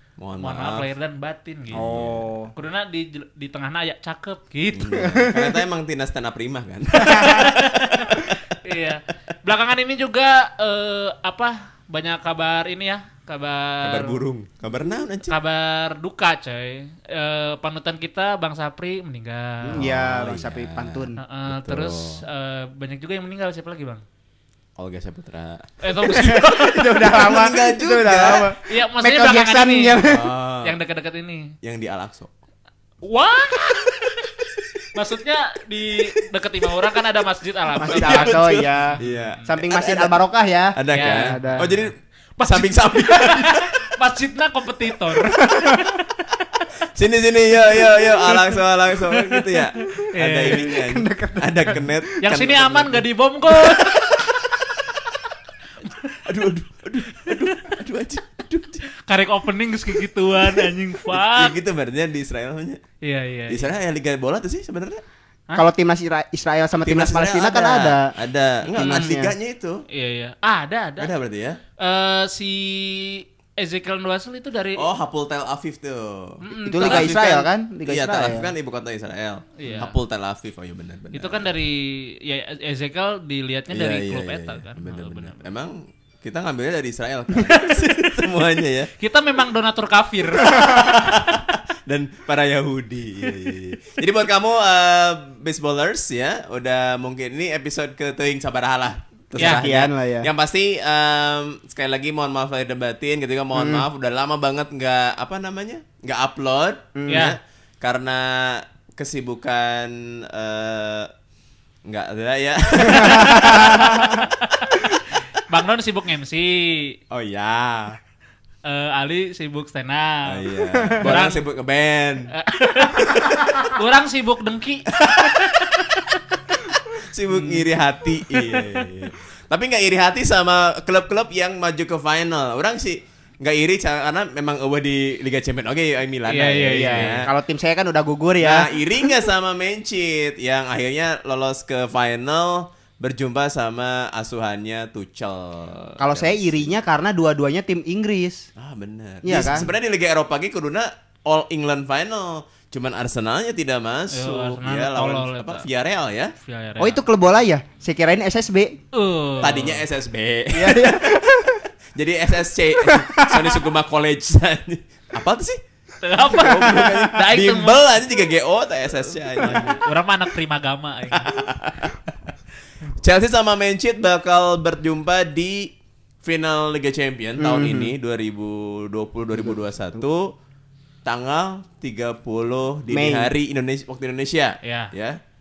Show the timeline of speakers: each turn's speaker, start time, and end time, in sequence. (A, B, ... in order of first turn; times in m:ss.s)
0:00.2-0:00.9 A
0:00.4-0:01.9 B
0:01.7-0:02.3 A
0:01.7-0:02.5 C
0:02.5-0:05.1 B
0:04.7-0:08.6 A
0:05.0-0:05.5 C
0:07.0-0:07.5 C
0:07.1-0:14.2 B
0:13.8-0:15.4 A
0:15.2-0:19.8 B
0:19.6-0:21.2 C
0:19.7-0:22.2 A
0:21.2-0:24.0 B
0:24.8-0:25.8 A
0:25.8-0:27.3 B
0:26.0-0:30.3 C
0:26.9-0:28.5 A
0:28.6-0:30.1 B
0:30.0-0:30.8 A
0:30.6-0:31.5 B
0:31.6-0:32.3 A
0:33.0-0:39.5 B
0:37.8-0:41.8 C
0:37.8-0:40.2 A
0:40.8-0:43.9 A
0:40.9-0:46.3 B
0:45.2-0:45.9 C
0:46.9-0:53.0 A
0:47.8-0:48.3 C
0:49.8-0:50.7 B
0:50.4-0:52.4 C
0:52.2-0:54.2 B
0:53.6-0:54.2 C
0:55.8-0:56.2 B
0:56.2-0:58.9 A
0:59.1-1:01.6 B
1:01.1-1:02.8 A
1:03.0-1:03.7 B
1:03.5-1:05.0 A
1:05.5-1:08.1 C
1:06.8-1:09.8 A
1:08.7-1:09.3 C
1:08.8-1:09.2 B
1:09.9-1:11.1 B
1:11.0-1:11.6 A
1:11.8-1:14.9 B
1:14.8-1:21.5 A
1:16.4-1:17.1 B
1:16.5-1:18.5 C
1:19.6-1:20.0 B
1:21.1-1:25.4 B
1:23.7-1:28.9 A
1:27.4-1:27.9 B
1:29.0-1:31.4 B
1:30.6-1:51.1 A
1:39.4-1:40.3 C
1:39.4-1:39.6 B
1:43.6-1:43.8 C
1:47.0-1:47.3 C
1:47.1-1:47.4 B
1:51.8-1:54.2 A
1:52.9-1:54.3 C
1:53.0-1:57.0 B
1:57.1-1:58.0 A
1:58.6-2:01.4 B
2:00.2-2:02.3 A
2:00.7-2:01.2 C
2:02.3-2:06.6 B
2:02.8-2:03.7 A
2:04.9-2:05.6 A
2:06.9-2:17.3 A
2:07.3-2:07.7 B
2:08.2-2:08.9 B
2:16.3-2:17.2 B
2:16.6-2:19.3 C
2:18.4-2:26.7 A
2:26.0-2:28.5 C
2:28.6-2:36.3 A
2:29.2-2:29.7 C
2:34.1-2:35.7 B
2:36.4-2:37.0 B
2:36.8-2:38.8 C
2:38.9-2:39.8 B
2:39.4-2:41.2 A
2:40.5-2:41.6 C
2:42.0-2:45.6 A
2:42.8-2:43.6 C
2:46.0-2:47.9 B
2:46.2-2:49.8 A
2:46.4-2:47.0 C
2:49.4-2:49.7 C
2:49.4-2:51.3 B
2:51.2-2:52.3 A
2:53.0-3:00.4 A
2:57.4-2:57.9 C
3:01.0-3:05.2 A
3:02.9-3:03.3 C
3:04.6-3:04.9 B